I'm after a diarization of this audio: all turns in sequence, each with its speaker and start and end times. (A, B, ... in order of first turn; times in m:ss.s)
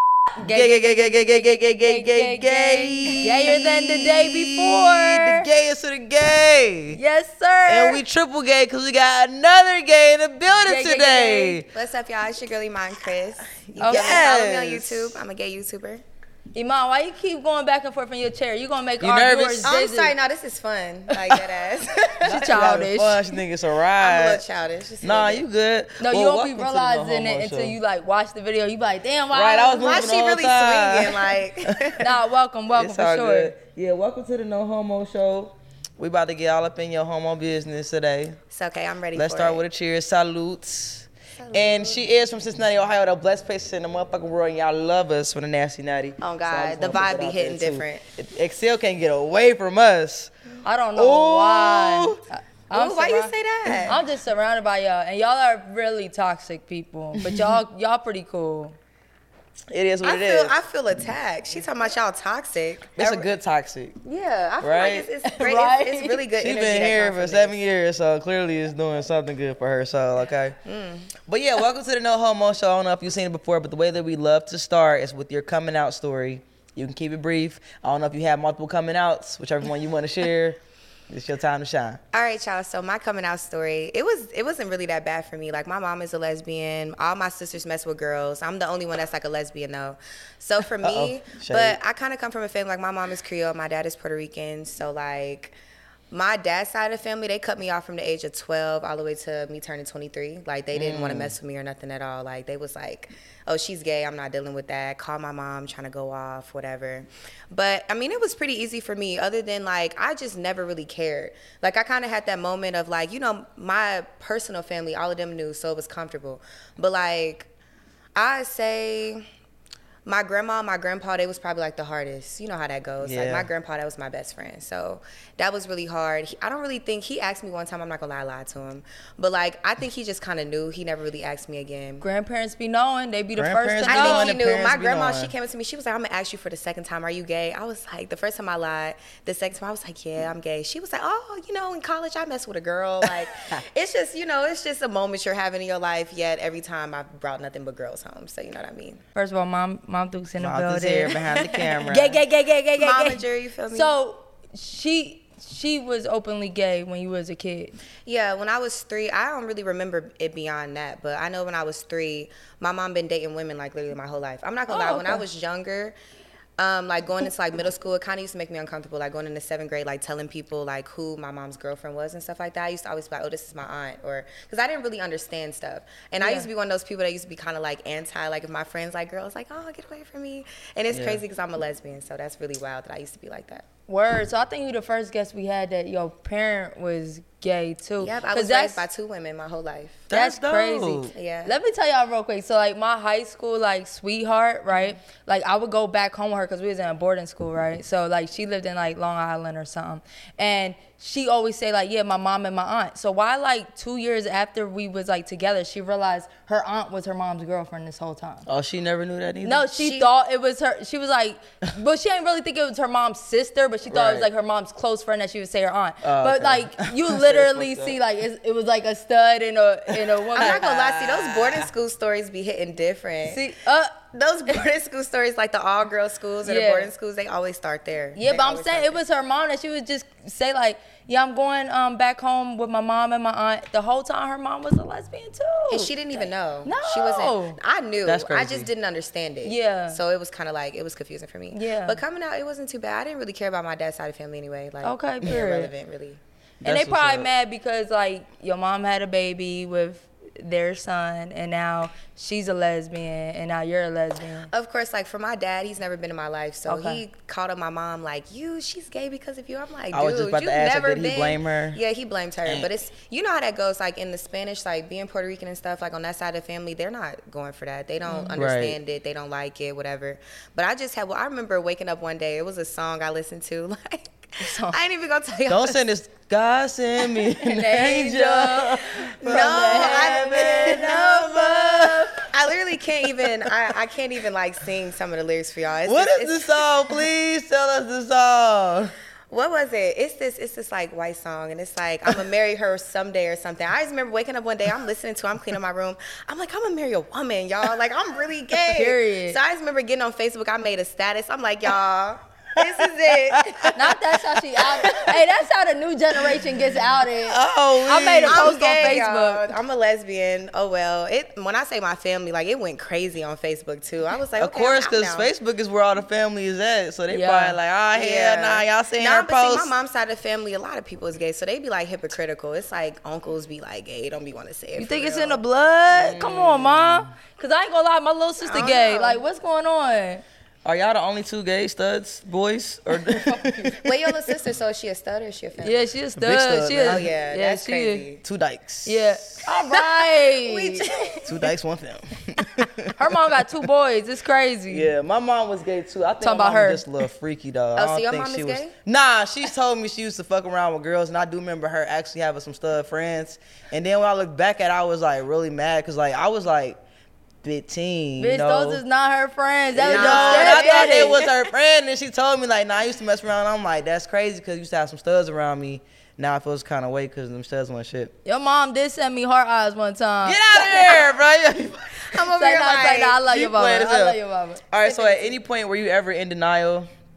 0:00.4-0:05.5 A
0:00.4-0:07.0 B
0:06.9-0:08.0 A
0:07.7-0:11.7 B
0:10.5-0:11.6 A
0:11.7-0:16.0 C
0:13.8-0:14.2 A
0:13.9-0:15.2 B
0:16.5-0:20.1 A
0:19.0-0:19.7 B
0:19.6-0:22.5 C
0:22.2-0:24.4 B
0:22.3-0:23.4 A
0:24.0-0:25.4 C
0:25.0-0:27.7 B
0:26.0-0:30.0 A
0:29.3-0:31.3 B
0:29.8-0:32.1 C
0:32.0-0:33.5 A
0:32.7-0:38.4 B
0:38.5-0:39.6 C
0:39.1-0:50.3 B
0:41.4-0:42.1 C
0:46.2-0:48.0 C
0:50.6-0:53.3 A
0:51.0-0:52.2 B
0:52.7-0:54.0 C
0:53.9-0:58.8 A
0:59.7-1:00.6 B
1:00.0-1:03.3 C
1:03.0-1:04.0 B
1:04.0-1:07.5 C
1:04.6-1:05.1 B
1:05.3-1:06.2 A
1:06.4-1:10.6 B
1:10.6-1:11.1 C
1:11.2-1:20.6 B
1:21.1-1:22.0 B
1:22.1-1:35.5 C
1:30.8-1:31.8 B
1:36.1-1:57.5 C
1:40.7-1:41.3 B
1:58.2-1:59.2 C
2:00.0-2:12.0 C
2:03.0-2:03.5 B
2:12.0-2:14.4 A
2:13.4-2:15.3 B
2:13.9-2:29.0 C
2:29.1-2:31.2 A
2:30.4-2:32.2 B
2:31.4-2:31.8 C
2:31.9-2:37.7 A
2:32.8-2:33.9 C
2:38.0-2:45.9 C
2:44.7-2:45.2 A
2:46.6-3:03.6 C
2:56.2-2:56.5 A
3:00.9-3:01.2 B
3:03.9-3:08.8 A
3:08.0-3:10.0 C
3:10.1-3:11.1 B
3:10.1-3:28.4 A
3:11.1-3:11.6 C
3:28.4-3:29.6 B
3:29.4-3:40.7 A
3:29.8-3:30.1 C
3:33.9-3:34.3 B
3:36.0-3:38.0 B
3:39.9-3:41.7 B
3:40.4-3:43.4 C
3:43.3-3:44.0 A
3:44.1-3:49.0 C
3:46.4-3:46.9 A
3:48.2-3:57.6 A
3:55.7-4:06.2 C
3:58.0-3:58.7 B
3:59.4-4:00.0 A
4:01.5-4:02.0 A
4:04.8-4:05.7 A
4:06.6-4:07.3 B
4:06.6-4:14.5 A
4:14.5-4:35.8 C
4:16.7-4:17.0 A
4:19.9-4:21.8 B
4:28.0-4:28.3 A
4:28.4-4:28.8 B
4:34.4-4:34.8 A
4:35.5-4:42.1 B
4:37.4-4:41.2 A
4:39.2-4:46.5 C
4:45.8-4:48.9 B
4:49.3-5:03.7 C
4:58.7-4:59.4 A
5:03.6-5:09.5 A
5:07.2-5:08.5 B
5:08.3-5:15.3 C
5:14.4-5:19.7 B
5:17.1-5:17.6 A
5:17.9-5:25.4 C
5:24.8-5:30.2 A
5:25.9-5:27.1 B
5:28.4-5:29.2 C
5:30.6-5:33.8 B
5:33.2-5:33.7 A
5:33.8-5:35.8 C
5:35.6-5:38.0 A
5:36.2-5:37.0 B
5:36.8-5:38.2 C
5:38.2-5:39.4 B
5:38.8-5:40.9 A
5:39.6-5:41.3 C
5:41.2-5:43.1 B
5:43.0-5:44.9 A
5:44.7-5:56.8 B
5:46.2-5:46.8 A
5:47.8-5:48.7 C
5:57.4-5:58.8 B
5:58.2-6:01.2 A
5:59.8-6:08.1 B
5:59.8-6:01.3 C
6:08.2-6:11.0 A
6:10.2-6:12.0 B
6:12.1-6:13.2 C
6:12.3-6:14.6 A
6:13.2-6:14.2 B
6:14.7-6:16.9 B
6:14.8-6:15.3 C